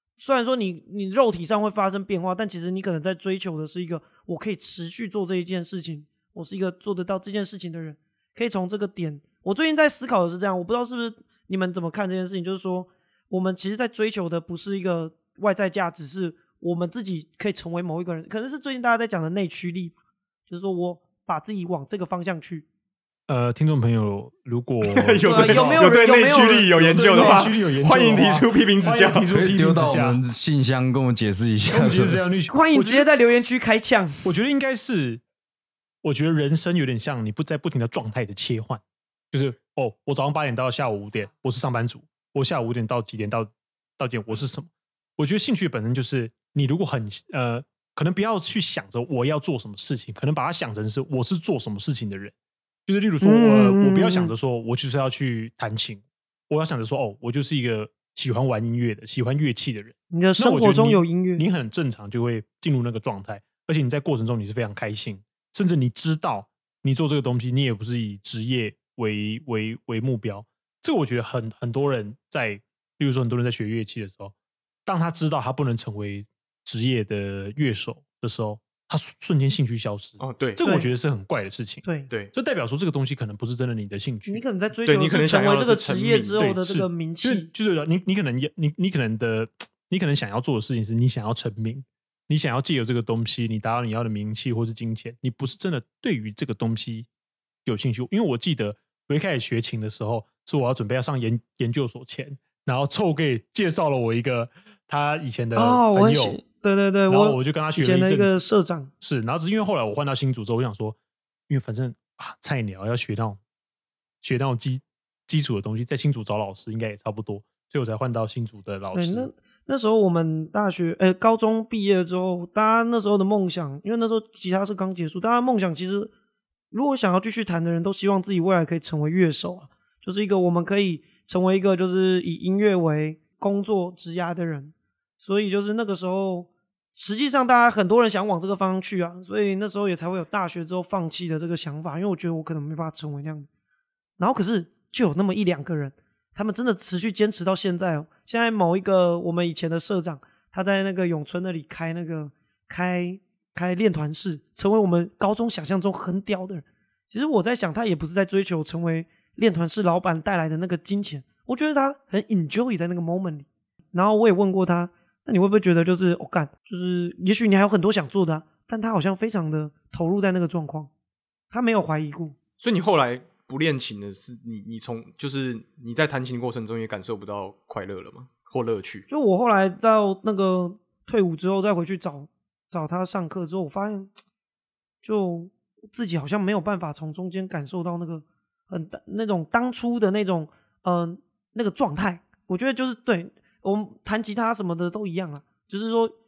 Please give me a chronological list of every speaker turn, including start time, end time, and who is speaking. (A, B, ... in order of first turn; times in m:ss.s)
0:00.2-0:20.0 A
0:20.5-0:22.6 A
0:23.3-0:25.9 B
0:24.8-0:29.3 C
0:25.2-0:27.5 A
0:26.8-0:30.2 B
0:29.3-0:32.2 D
0:31.7-0:33.1 B
0:32.5-0:34.2 A
0:34.2-0:35.2 B
0:36.0-0:52.3 B
0:52.9-1:14.3 B
0:53.2-0:54.3 A
1:00.1-1:01.4 A
1:14.8-1:24.4 B
1:20.2-1:20.6 C
1:20.6-1:20.9 A
1:24.3-1:27.5 A
1:24.8-1:26.4 C
1:26.4-1:37.1 B
1:37.6-1:46.4 B
1:45.6-1:48.9 A
1:47.1-1:48.4 B
1:49.0-1:51.0 B
1:51.5-1:53.4 B
1:54.2-1:59.3 B
1:58.9-2:06.1 A
2:06.7-2:23.5 A
2:24.2-2:50.9 A
2:51.5-2:52.3 A
2:52.6-2:59.0 C
2:59.1-3:04.1 A
3:05.0-3:16.1 A